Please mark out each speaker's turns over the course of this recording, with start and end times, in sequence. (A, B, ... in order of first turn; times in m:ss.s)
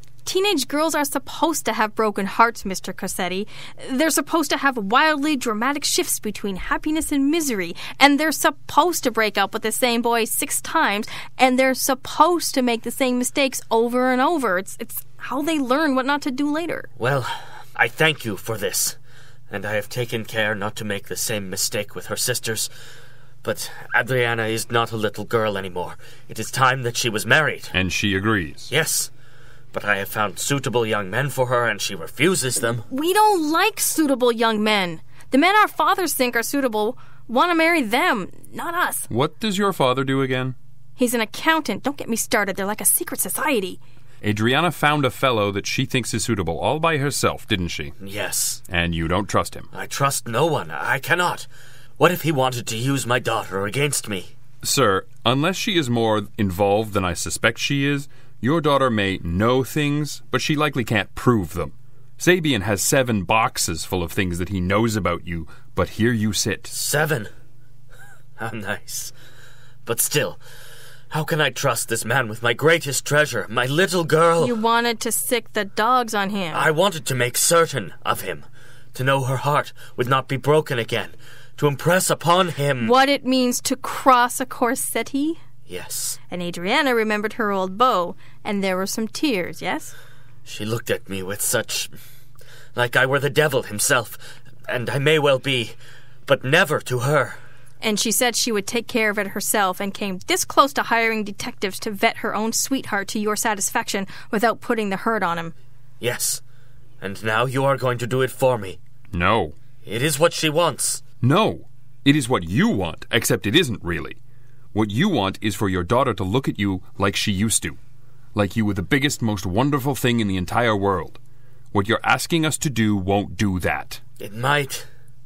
0:00.2-0:16.9 A
0:17.0-0:19.0 B
0:19.5-0:22.7 B
0:23.4-0:27.7 B
0:27.7-0:28.7 C
0:28.7-0:29.1 B
0:29.7-0:32.8 B
0:32.9-0:39.1 A
0:39.1-0:40.5 C
0:41.0-0:43.8 A
0:44.2-0:47.9 C
0:48.0-0:48.6 B
0:48.7-0:49.7 C
0:49.7-0:51.5 B
0:52.0-0:54.3 B
0:54.6-1:06.7 C
1:06.7-1:07.3 B
1:08.4-1:09.1 B
1:09.8-1:10.4 B
1:11.1-1:14.6 B
1:14.4-1:16.7 A
1:16.5-1:22.9 B
1:22.8-1:25.4 A
1:25.7-1:26.2 B
1:26.3-1:29.9 A
1:30.4-1:31.9 B
1:32.7-1:35.8 B
1:36.3-1:37.4 B
1:37.8-1:45.5 A
1:46.0-1:46.4 B
1:47.0-1:48.8 B
1:49.1-1:49.5 C
1:49.8-1:51.0 B
1:51.2-1:54.2 C
1:54.7-1:57.8 C
1:58.3-2:01.2 C
2:01.7-2:04.0 C
2:04.2-2:04.8 B